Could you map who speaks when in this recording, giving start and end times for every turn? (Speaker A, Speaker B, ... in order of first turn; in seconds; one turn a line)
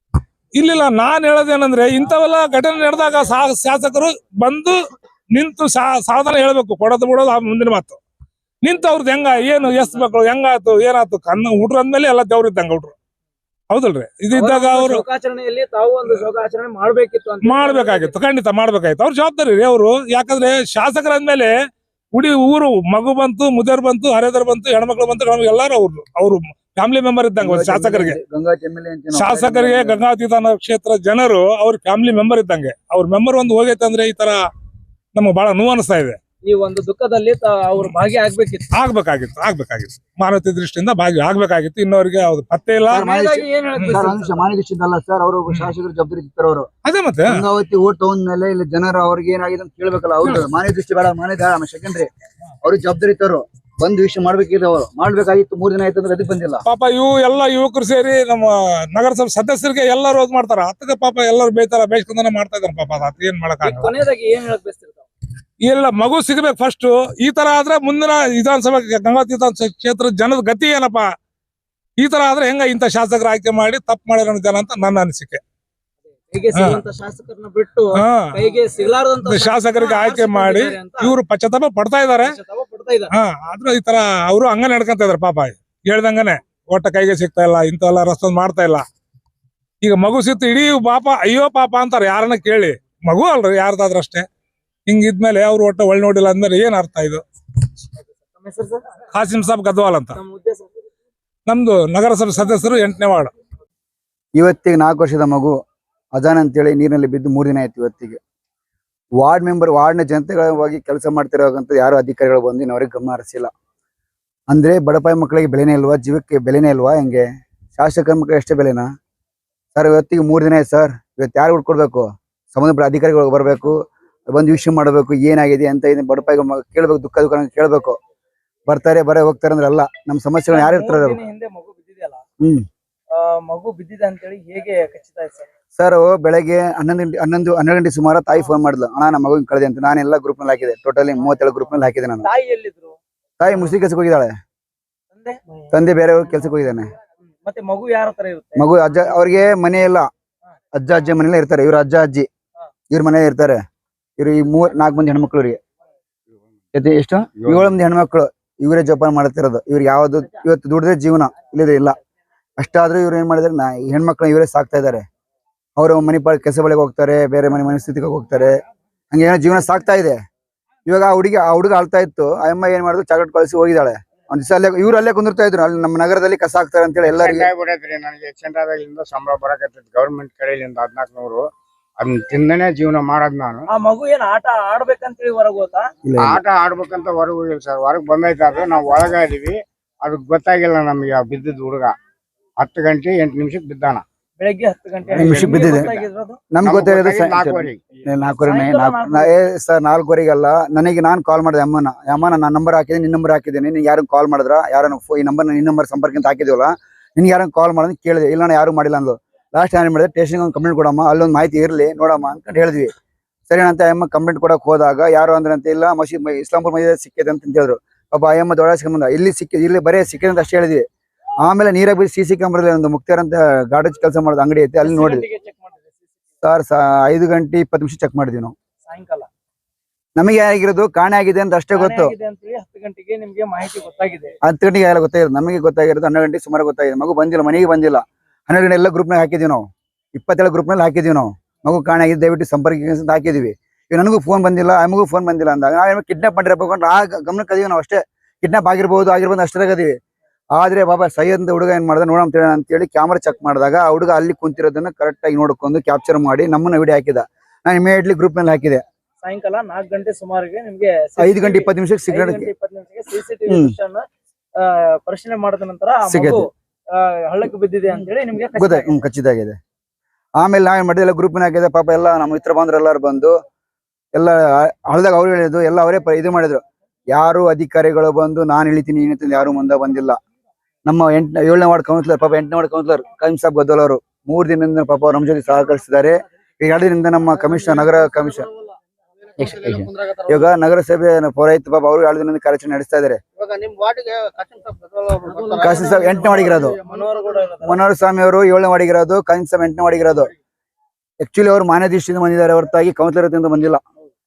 Speaker A: 0.6-4.7
Speaker A: 5.3-8.0
Speaker A: 8.6-12.9
Speaker A: 13.7-15.0
Speaker B: 14.3-18.1
Speaker A: 17.4-21.5
Speaker A: 22.1-28.2
Speaker C: 27.4-30.0
Speaker A: 29.1-34.4
Speaker A: 35.1-36.2
Speaker B: 36.4-38.7
Speaker A: 38.7-43.2
Speaker C: 42.9-46.7
Speaker B: 43.0-44.6
Speaker A: 46.8-47.3
Speaker C: 47.3-52.1
Speaker C: 52.6-56.6
Speaker A: 56.6-63.9
Speaker B: 63.6-65.0
Speaker A: 65.6-71.0
Speaker A: 72.0-75.4
Speaker B: 76.3-81.1
Speaker A: 76.5-76.8
Speaker A: 78.0-78.2
Speaker A: 79.2-82.3
Speaker B: 82.2-83.1
Speaker A: 83.1-88.8
Speaker A: 89.8-94.2
Speaker A: 94.9-97.2
Speaker B: 98.3-98.8
Speaker A: 99.1-100.2
Speaker B: 100.1-100.7
Speaker A: 101.5-103.3
Speaker C: 104.3-105.5
Speaker C: 106.1-108.2
Speaker C: 109.2-113.5
Speaker C: 114.5-118.9
Speaker C: 119.7-128.0
Speaker C: 128.7-131.2
Speaker B: 130.5-132.2
Speaker B: 133.2-135.5
Speaker C: 135.8-142.3
Speaker B: 142.2-143.7
Speaker C: 143.4-144.3
Speaker B: 145.1-145.4
Speaker C: 145.7-146.9
Speaker B: 147.4-148.7
Speaker C: 148.6-150.1
Speaker C: 150.7-152.3
Speaker C: 152.9-153.6
Speaker C: 154.2-155.6
Speaker C: 156.7-161.9
Speaker D: 157.4-157.7
Speaker C: 162.6-165.0
Speaker C: 165.8-168.5
Speaker C: 169.1-170.2
Speaker C: 170.8-177.5
Speaker D: 177.1-181.4
Speaker D: 182.0-183.6
Speaker B: 183.7-185.9
Speaker C: 186.0-186.4
Speaker D: 186.2-191.9
Speaker D: 192.6-194.0
Speaker B: 194.4-196.4
Speaker D: 195.1-195.7
Speaker C: 195.2-212.9
Speaker D: 196.6-198.0
Speaker B: 198.2-199.3
Speaker C: 213.5-220.8
Speaker C: 221.4-225.2
Speaker B: 224.8-225.9
Speaker C: 226.4-228.5
Speaker B: 228.8-229.3
Speaker C: 230.2-232.1
Speaker B: 231.7-234.3
Speaker C: 234.4-249.9
Speaker C: 250.5-258.8
Speaker B: 259.2-264.0
Speaker C: 261.2-262.5
Speaker C: 263.5-263.7
Speaker B: 264.6-268.9
Speaker C: 266.1-266.4
Speaker C: 268.5-269.6
Speaker C: 270.4-273.4
Speaker C: 274.1-280.2
Speaker C: 280.8-288.5
Speaker E: 287.4-290.5
Speaker C: 289.4-293.2
Speaker E: 293.4-297.5
Speaker B: 295.3-297.8
Speaker C: 295.6-296.8
Speaker C: 297.6-300.3
Speaker C: 301.2-303.8